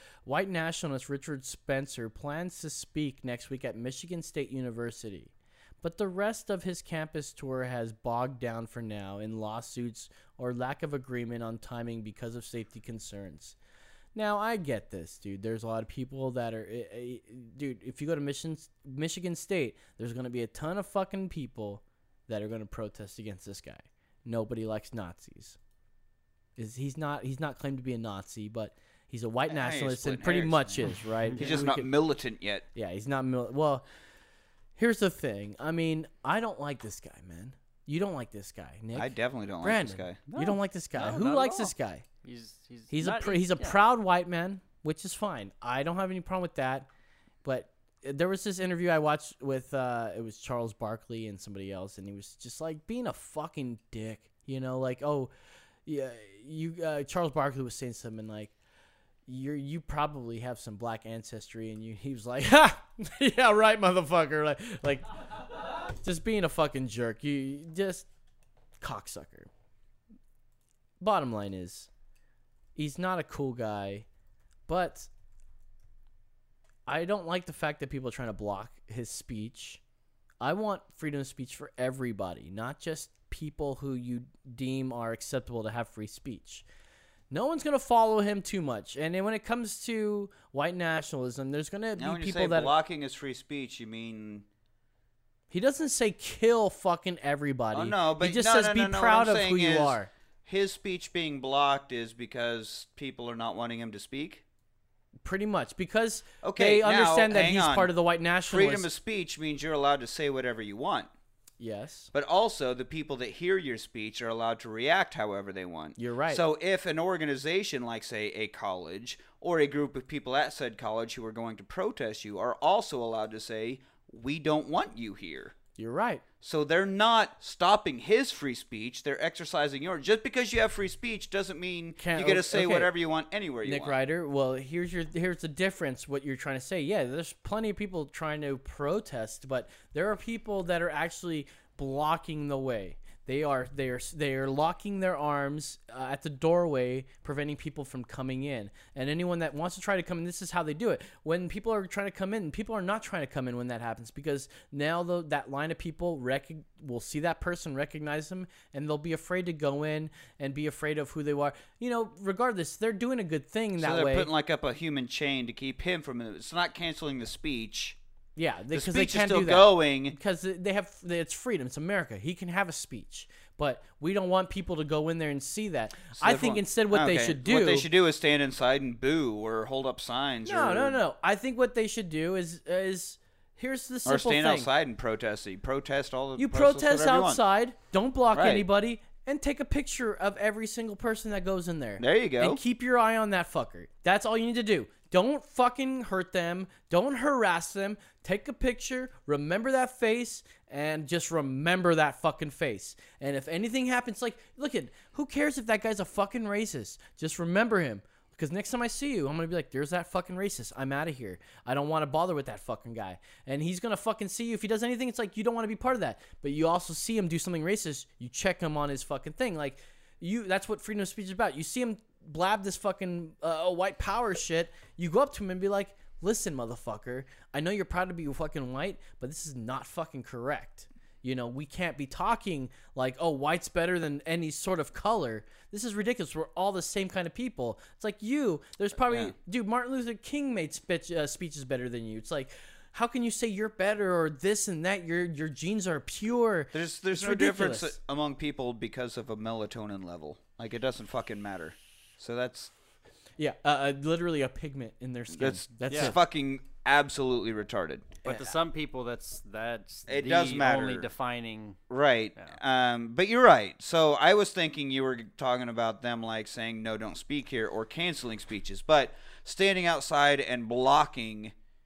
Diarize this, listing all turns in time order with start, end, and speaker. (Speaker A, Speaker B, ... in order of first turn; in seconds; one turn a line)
Speaker A: 0.3-13.6
Speaker A: 14.2-25.6
Speaker A: 26.6-31.9
Speaker B: 29.5-32.6
Speaker A: 32.7-33.9
Speaker A: 34.8-42.0
Speaker B: 38.9-40.4
Speaker C: 40.3-41.7
Speaker C: 42.2-43.8
Speaker A: 42.9-46.9
Speaker A: 47.4-55.3
Speaker A: 55.9-58.5
Speaker A: 59.3-65.1
Speaker A: 66.0-68.1
Speaker A: 68.8-69.5
Speaker A: 71.0-71.9
Speaker A: 72.8-74.1
Speaker A: 74.7-75.1
Speaker A: 76.9-79.8
Speaker A: 80.4-86.7
Speaker A: 87.3-92.7
Speaker B: 92.0-94.5
Speaker A: 95.5-100.1
Speaker B: 97.7-104.4
Speaker A: 105.2-108.9
Speaker B: 106.4-107.9
Speaker B: 108.5-111.1
Speaker A: 111.6-112.1
Speaker B: 112.1-125.5
Speaker A: 116.0-116.4
Speaker A: 125.8-126.2
Speaker B: 126.4-134.0
Speaker A: 132.0-132.9
Speaker A: 133.6-164.3
Speaker B: 163.8-168.0
Speaker A: 168.4-177.9
Speaker B: 168.7-170.2
Speaker B: 176.2-181.0
Speaker A: 180.4-184.7
Speaker B: 184.1-187.4
Speaker A: 186.4-247.9
Speaker B: 188.3-188.7
Speaker B: 192.0-192.6
Speaker B: 239.1-239.3
Speaker B: 246.7-252.7
Speaker A: 253.4-256.2
Speaker B: 255.3-258.2
Speaker C: 255.9-256.1
Speaker C: 258.2-261.8
Speaker B: 260.1-261.1
Speaker B: 261.9-271.5